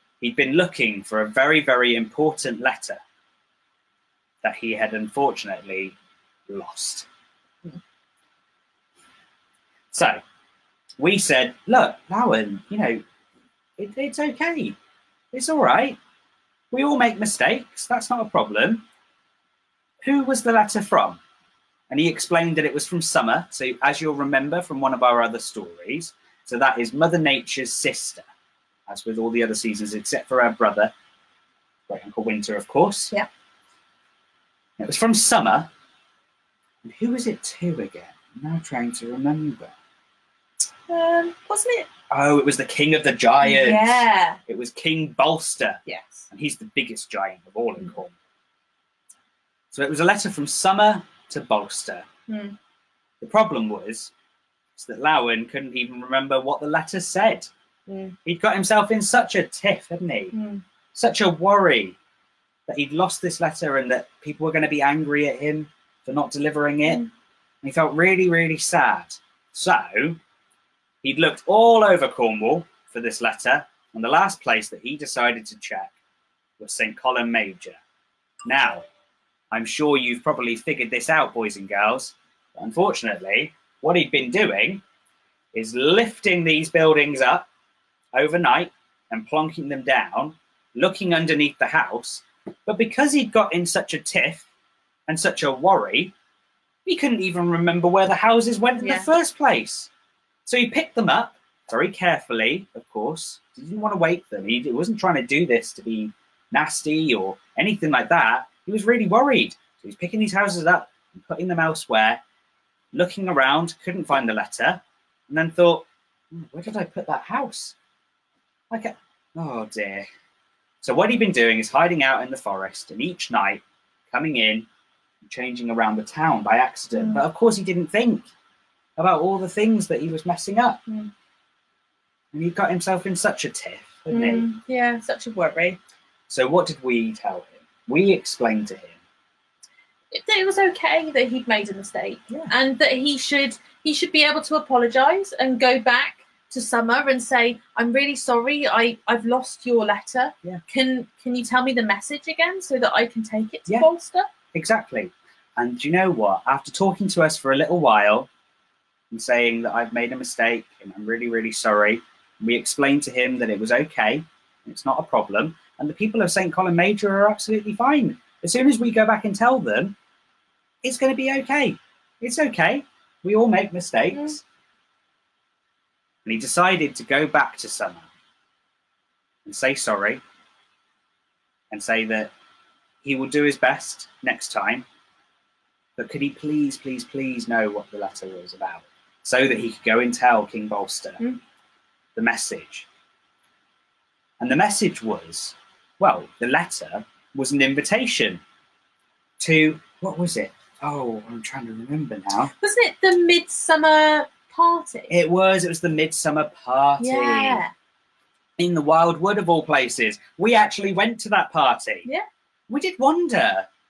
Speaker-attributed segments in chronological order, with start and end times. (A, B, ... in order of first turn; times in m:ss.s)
0:00.2-0:03.0 A
0:04.4-0:06.0 A
0:06.5-0:07.1 A
0:09.9-0:10.2 A
0:11.0-0:13.0 A
0:13.8-0:14.8 A
0:15.3-0:16.0 A
0:16.7-0:18.8 A
0:20.0-0:21.2 A
0:21.9-0:28.3 A
0:28.9-0:30.9 A
0:31.9-0:33.1 A
0:34.8-0:35.7 A
0:36.8-0:39.7 A
0:40.9-0:41.9 B
0:42.1-0:48.1 A
0:43.4-0:44.4 B
0:45.9-0:46.3 B
0:49.7-0:52.1 A
0:52.3-0:52.6 B
0:53.2-0:54.1 A
0:54.8-0:57.5 A
0:57.9-0:58.2 B
0:58.2-1:00.4 A
1:00.3-1:00.6 B
1:00.9-1:02.0 A
1:02.7-1:07.1 A
1:07.6-1:10.2 A
1:11.0-1:15.9 A
1:16.6-1:17.8 A
1:18.5-1:18.8 A
1:19.5-1:24.8 A
1:25.5-1:27.5 A
1:28.2-1:34.5 A
1:35.1-1:36.1 A
1:36.8-1:39.9 A
1:38.8-1:39.1 B
1:40.5-1:52.2 A
1:52.9-1:57.8 A
1:58.7-2:00.1 A
2:00.8-2:04.7 A
2:05.2-2:08.3 A
2:07.0-2:07.2 B
2:09.0-2:10.8 A
2:10.9-2:11.1 B
2:12.3-2:14.5 A
2:14.1-2:15.8 B
2:16.3-2:19.0 A
2:20.1-2:34.3 B
2:34.5-2:38.3 A
2:39.1-2:50.0 A
2:50.8-2:54.4 A
2:54.1-2:54.4 B
2:56.2-2:58.1 A
2:59.4-3:00.2 A
3:01.7-3:02.3 A
3:03.0-3:04.8 A
3:06.0-3:11.2 A
3:12.2-3:12.9 A
3:14.4-3:18.4 A
3:19.4-3:22.5 A
3:22.5-3:25.1 B
3:25.1-3:27.6 A
3:27.0-3:27.7 B
3:28.6-3:32.1 A
3:32.7-3:33.7 A